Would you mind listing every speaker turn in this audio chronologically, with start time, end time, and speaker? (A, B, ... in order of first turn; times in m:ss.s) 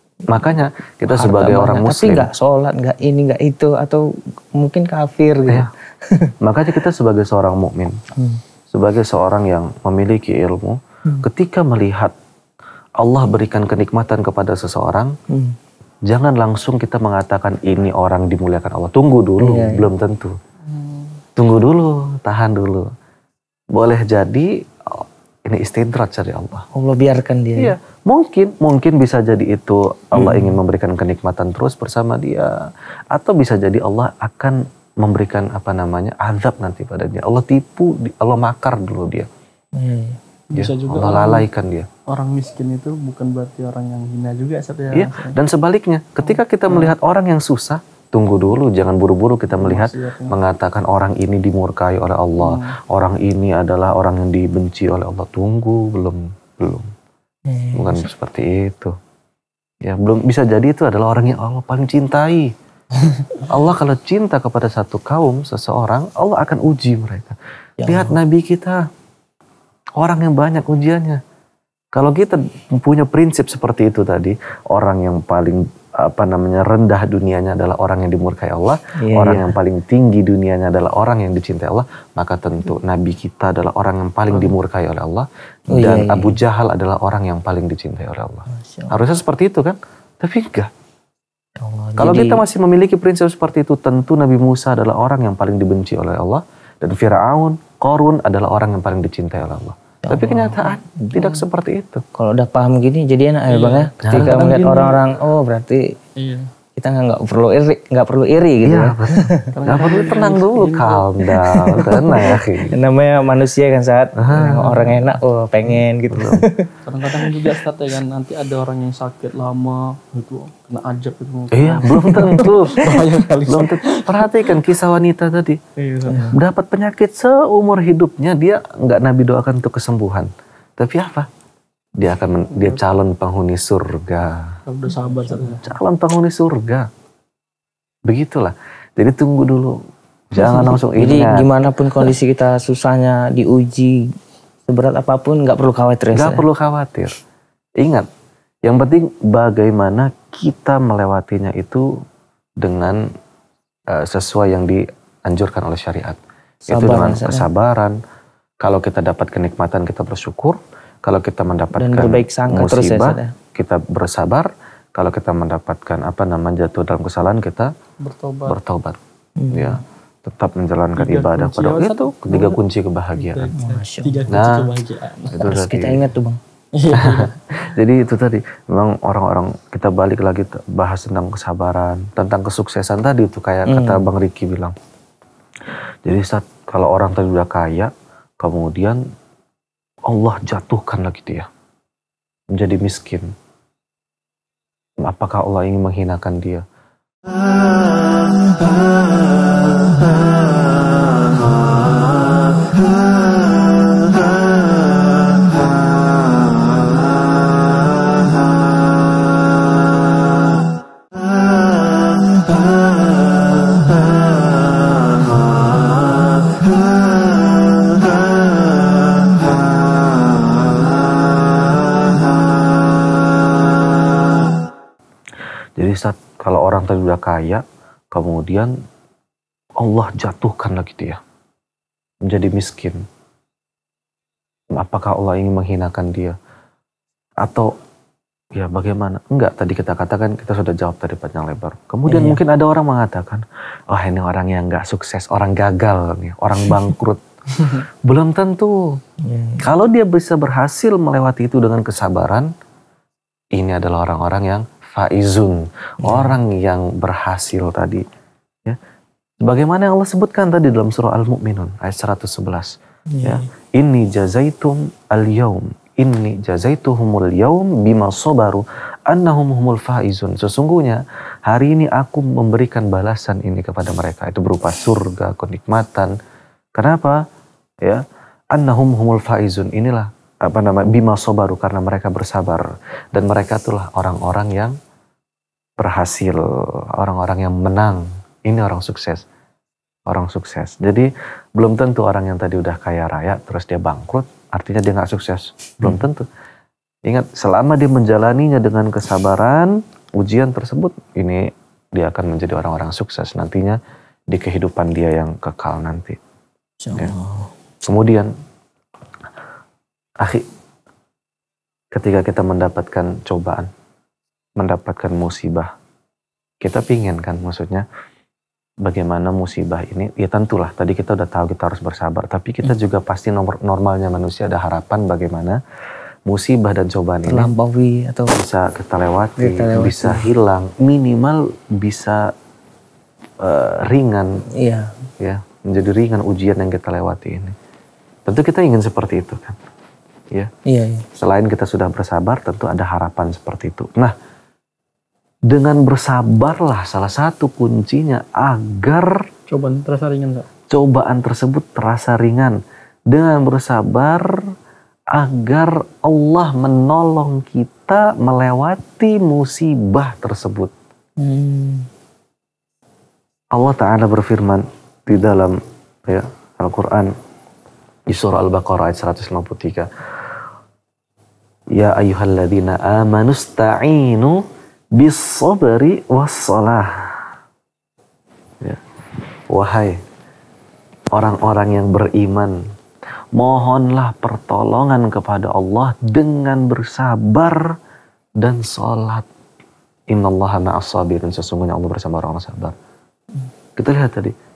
0:00.3-0:02.3 A
0:01.1-0:06.3 B
0:06.4-0:08.0 A
0:08.2-0:08.4 B
0:08.7-0:12.1 A
0:13.0-0:15.1 A
0:15.3-0:15.6 B
0:16.1-0:20.4 A
0:19.4-0:19.9 B
0:20.7-0:21.1 C
0:21.4-0:22.9 A
0:23.7-0:26.7 A
0:26.7-0:27.8 B
0:27.6-0:39.3 A
0:39.7-0:40.2 B
0:40.5-0:41.5 C
0:40.5-0:41.9 A
0:42.1-0:45.4 C
0:44.9-0:56.9 A
0:46.7-0:46.9 C
0:49.6-0:50.4 C
0:52.4-0:52.8 C
0:57.5-0:58.0 B
0:57.7-0:58.9 A
0:59.8-1:02.5 A
1:03.4-1:08.8 A
1:07.8-1:08.2 B
1:10.0-1:11.2 A
1:11.9-1:30.7 A
1:19.0-1:19.5 B
1:25.7-1:26.4 B
1:28.5-1:28.9 B
1:31.6-1:32.4 B
1:32.0-1:42.0 A
1:40.0-1:41.4 B
1:42.1-1:45.9 B
1:43.5-1:45.0 C
1:44.0-1:44.4 A
1:46.2-1:46.5 C
1:46.8-1:49.5 B
1:48.6-1:52.7 A
1:49.5-1:51.2 C
1:51.7-1:56.7 B
1:54.2-1:55.0 A
1:56.1-1:56.5 A
1:56.8-2:04.6 C
1:57.2-1:57.6 B
2:01.5-2:05.6 A
2:01.9-2:03.0 B
2:05.8-2:06.3 C
2:06.1-2:06.4 B
2:06.3-2:11.3 A
2:12.0-2:14.6 A
2:14.7-2:15.6 C
2:15.0-2:15.6 B
2:15.6-2:16.9 A
2:18.0-2:19.8 A
2:20.3-2:21.5 A
2:20.6-2:24.0 B
2:24.7-2:26.4 B
2:26.1-2:27.1 A
2:27.8-2:28.1 A
2:28.6-2:31.9 A
2:32.6-2:33.1 A
2:33.9-2:38.0 A
2:36.7-2:37.5 B
2:38.6-2:47.7 A
2:41.7-2:43.3 B
2:48.0-2:48.6 C
2:48.4-2:49.0 A
2:49.4-2:49.8 B
2:49.5-2:53.5 A
2:51.0-2:52.6 C
2:53.1-2:55.5 C
2:53.6-2:54.3 B
2:54.3-2:54.7 A
2:55.3-2:56.1 A
2:55.4-2:56.4 B
2:56.7-2:57.4 C
2:56.9-3:04.7 A
3:03.7-3:04.0 B
3:06.0-3:09.0 A
3:10.1-3:11.5 A
3:12.5-3:13.3 A
3:15.0-3:16.6 A
3:45.8-3:48.7 A
3:49.8-3:51.2 A
3:52.2-3:53.0 A
3:54.7-3:56.4 A
3:57.4-3:57.7 A
3:58.5-4:09.0 A
4:02.0-4:02.4 B
4:09.2-4:09.6 B
4:09.6-4:12.5 A
4:13.5-4:18.0 A
4:16.0-4:16.4 B
4:19.4-4:36.1 A
4:36.7-4:37.2 A
4:37.8-4:44.8 A
4:45.8-4:49.2 A
4:50.1-4:56.3 A
4:57.0-5:03.8 A
5:04.3-5:06.2 A
5:06.8-5:07.5 B
5:07.8-5:08.3 A
5:10.2-5:10.5 A
5:11.9-5:13.7 A
5:14.6-5:15.7 A
5:16.6-5:17.8 A
5:18.8-5:25.6 A
5:26.2-5:27.5 A
5:27.3-5:28.4 B
5:28.3-5:32.3 A
5:29.4-5:30.3 B
5:33.4-5:34.4 A
5:34.5-5:34.9 B
5:35.2-5:37.6 A
5:38.3-5:39.6 A
5:40.6-5:41.0 B
5:41.1-5:44.1 A
5:45.5-5:49.3 A
5:49.5-5:50.5 C
5:50.7-5:52.6 A
5:53.1-5:54.4 A
5:55.1-6:00.7 A
6:01.2-6:01.9 B
6:03.5-6:07.1 A
6:08.1-6:09.9 A
6:11.7-6:14.4 A
6:14.9-6:17.3 A
6:19.5-6:20.0 A
6:21.1-6:22.6 A
6:23.3-6:27.8 A
6:28.4-6:29.2 A
6:30.1-6:32.7 A
6:33.8-6:34.3 A